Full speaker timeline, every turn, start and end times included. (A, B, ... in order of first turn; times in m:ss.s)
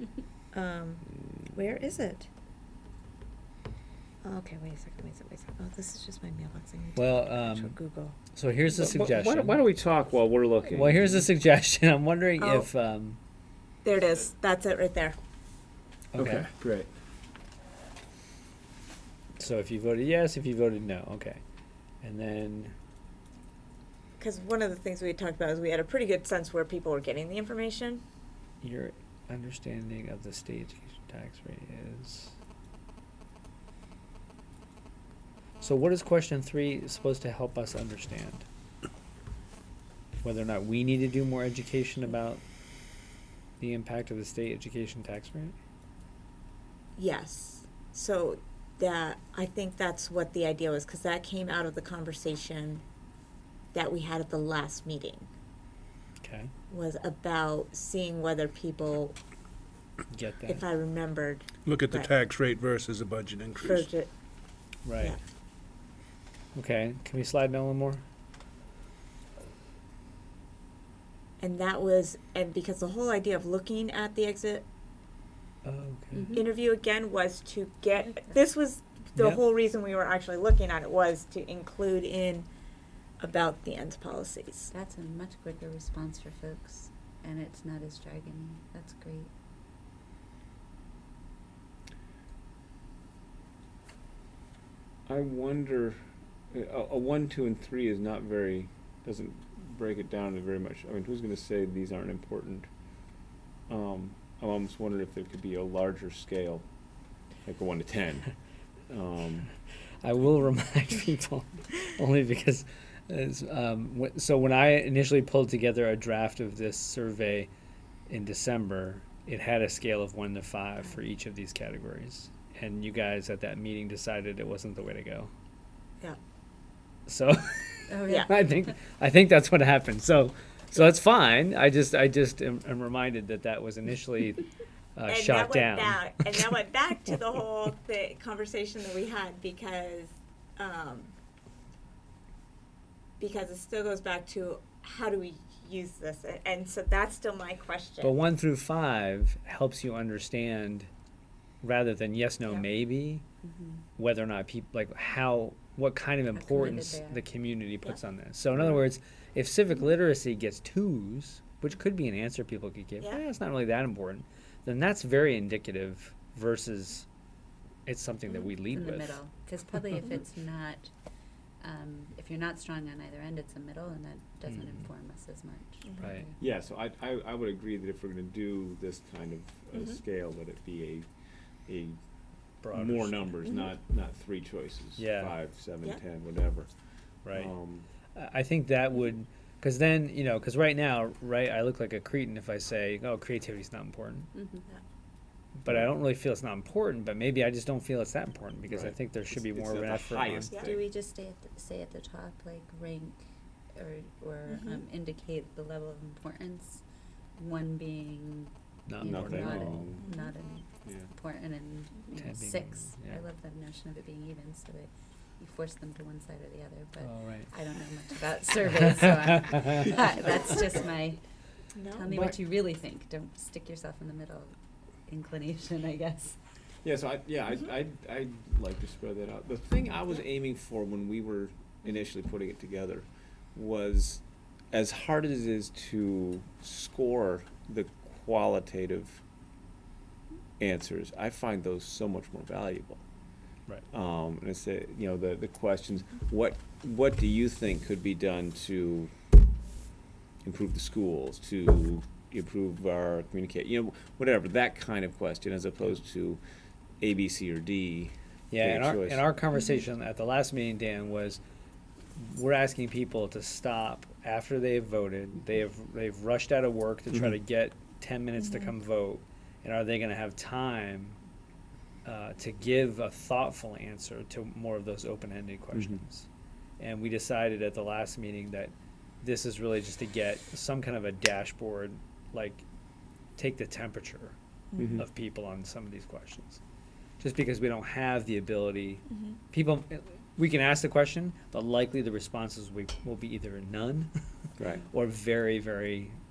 0:00.5-0:02.3 A
0:04.2-0:08.2 A
0:07.0-0:07.7 B
0:08.3-0:09.6 B
0:08.7-0:11.3 C
0:10.7-0:13.2 B
0:12.4-0:12.7 A
0:13.8-0:15.2 A
0:16.1-0:16.5 B
0:16.2-0:16.9 C
0:19.4-0:21.4 B
0:22.0-0:22.7 B
0:24.2-0:28.0 A
0:28.6-0:32.3 B
0:35.6-0:38.4 B
0:40.2-0:42.4 B
0:43.6-0:45.5 B
0:47.0-0:52.8 A
0:53.7-0:55.3 A
0:56.2-0:56.5 B
0:56.7-0:59.2 A
1:00.1-1:00.6 B
1:00.5-1:02.1 A
1:01.6-1:03.9 D
1:03.6-1:04.1 A
1:04.8-1:05.2 B
1:06.5-1:08.0 B
1:11.4-1:14.6 A
1:15.6-1:16.3 B
1:16.1-1:16.5 E
1:16.3-1:22.4 A
1:23.2-1:24.7 A
1:24.7-1:29.3 E
1:35.1-1:36.0 C
1:36.5-1:42.7 C
1:43.7-1:46.6 C
1:47.4-1:48.3 C
1:48.9-1:49.5 C
1:50.0-1:57.5 B
1:58.1-2:05.3 B
2:07.1-2:16.3 B
2:07.9-2:08.8 E
2:15.0-2:21.1 A
2:23.2-2:28.2 A
2:28.0-2:30.9 B
2:31.6-2:33.2 B
2:33.4-2:33.8 E
2:34.0-2:47.0 B
2:36.3-2:37.3 E
2:47.8-2:49.2 B
2:48.6-2:50.9 E
2:51.6-2:56.3 E
2:54.5-2:54.8 B
2:56.0-2:56.3 B
2:56.4-3:01.1 C
3:01.6-3:02.0 C
3:02.6-3:03.3 B
3:02.7-3:06.7 C
3:05.0-3:05.3 B
3:07.2-3:07.5 B
3:07.3-3:07.9 C
3:08.1-3:14.3 B
3:14.3-3:14.6 E
3:15.6-3:20.6 B
3:18.7-3:20.8 C
3:20.5-3:20.8 A
3:20.6-3:26.8 E
3:24.5-3:24.8 A
3:27.4-3:41.2 E
3:28.9-3:29.8 B
3:29.0-3:30.0 C
3:30.0-3:30.3 A
3:32.1-3:33.2 B
3:37.0-3:37.5 B
3:41.7-3:42.1 A
3:41.9-3:44.5 E
3:45.1-3:46.4 E
3:46.8-3:59.2 C
4:00.6-4:03.0 C
4:03.9-4:09.1 C
4:10.4-4:16.4 C
4:17.0-4:19.2 C
4:18.5-4:21.4 B
4:22.2-4:31.2 B
4:32.0-4:36.2 B
4:35.7-4:36.0 C
4:36.8-4:42.6 B
4:43.4-4:44.3 B
4:44.7-4:45.0 A
4:44.8-4:45.0 C
4:45.0-4:46.6 B
4:47.2-4:54.1 B
4:49.1-4:49.4 A
4:54.6-4:54.8 C
4:54.9-4:56.2 B